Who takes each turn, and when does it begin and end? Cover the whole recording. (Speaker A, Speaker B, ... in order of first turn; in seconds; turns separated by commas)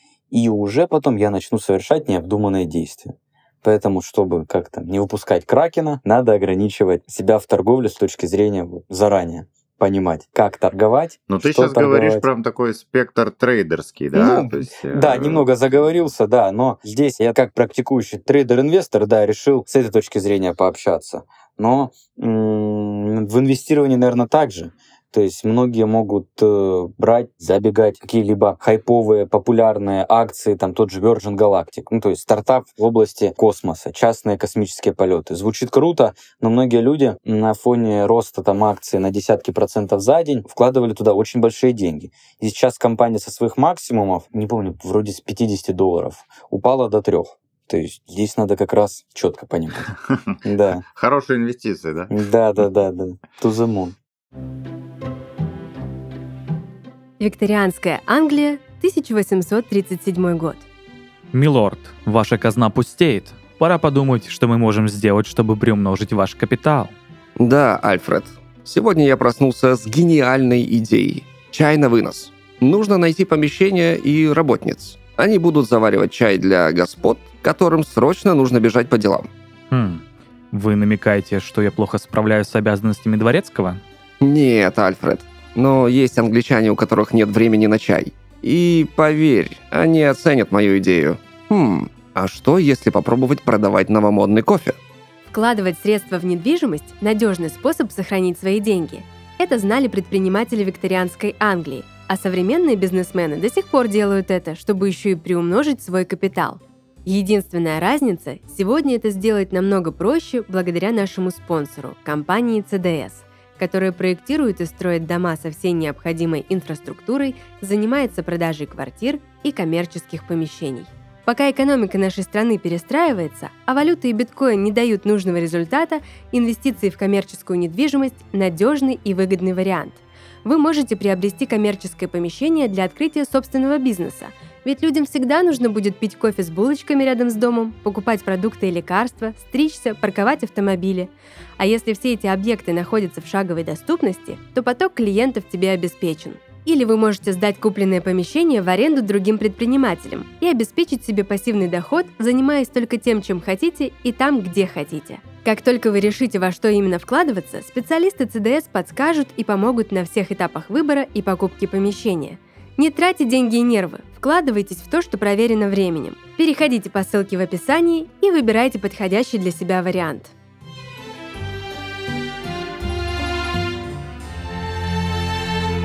Speaker A: 0.3-12.3, Speaker B: 11.3-16.1, Speaker A: 14.1-50.8, Speaker B: 50.9-52.7, Speaker A: 52.1-54.0, Speaker C: 57.2-60.7, Speaker D: 61.3-67.0, Speaker E: 67.4-79.3, Speaker D: 79.7-83.8, Speaker E: 84.2-94.8, Speaker C: 95.3-170.3